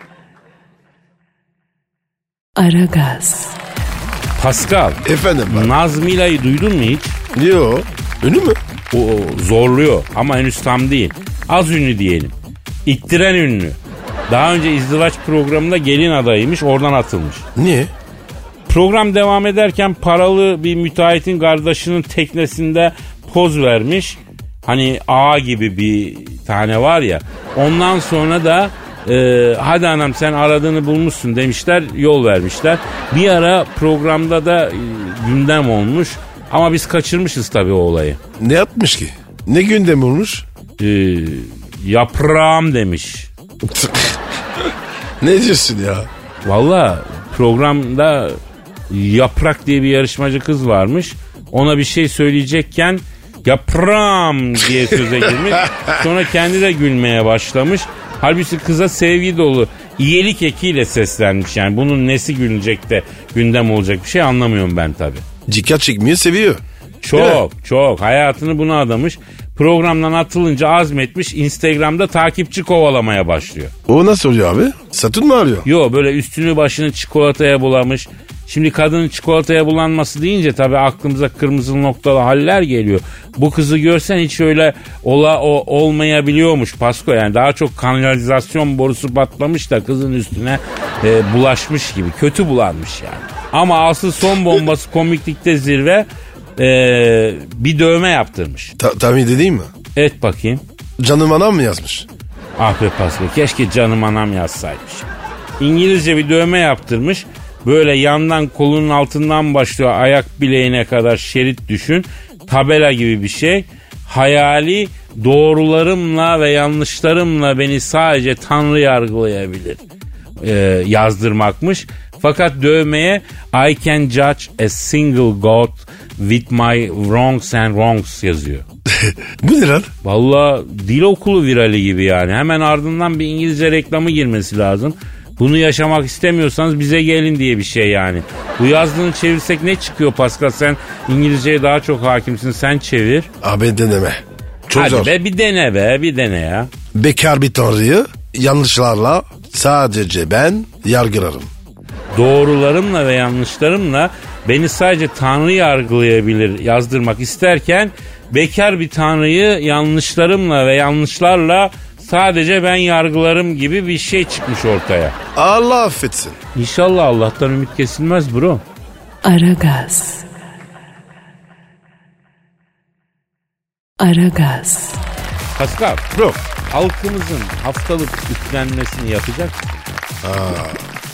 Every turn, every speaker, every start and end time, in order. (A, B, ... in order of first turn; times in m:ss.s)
0:02.6-0:03.6 A
0:04.4-0:07.2 B
0:05.0-0:05.7 C
0:07.3-0:08.6 C
0:08.9-0:12.3 B
0:12.8-0:13.8 B
0:14.3-0:17.4 B
0:17.5-0:17.9 C
0:18.7-0:38.2 B
0:38.4-0:40.4 C
0:40.8-0:43.3 B
0:43.6-0:46.1 C
0:46.4-0:48.4 B
0:48.9-1:05.2 B
0:55.0-0:56.0 C
1:05.5-1:06.6 C
1:07.0-1:13.7 B
1:07.1-1:07.4 C
1:13.9-1:15.7 C
1:15.6-1:38.7 B
1:38.8-1:39.7 C
1:39.9-1:40.6 B
1:41.0-1:42.1 C
1:42.6-1:59.8 B
2:00.4-2:08.6 B
2:09.0-2:09.9 C
2:10.0-2:23.3 B
2:23.4-2:25.1 C
2:24.7-2:26.7 B
2:26.9-2:31.5 C
2:32.1-2:45.1 B
2:45.4-2:46.4 C
2:46.5-2:48.6 B
2:49.2-2:50.3 A
2:54.0-2:55.0 A
2:55.6-2:56.1 B
2:56.1-2:56.4 C
2:56.7-2:59.8 B
3:00.2-3:00.9 C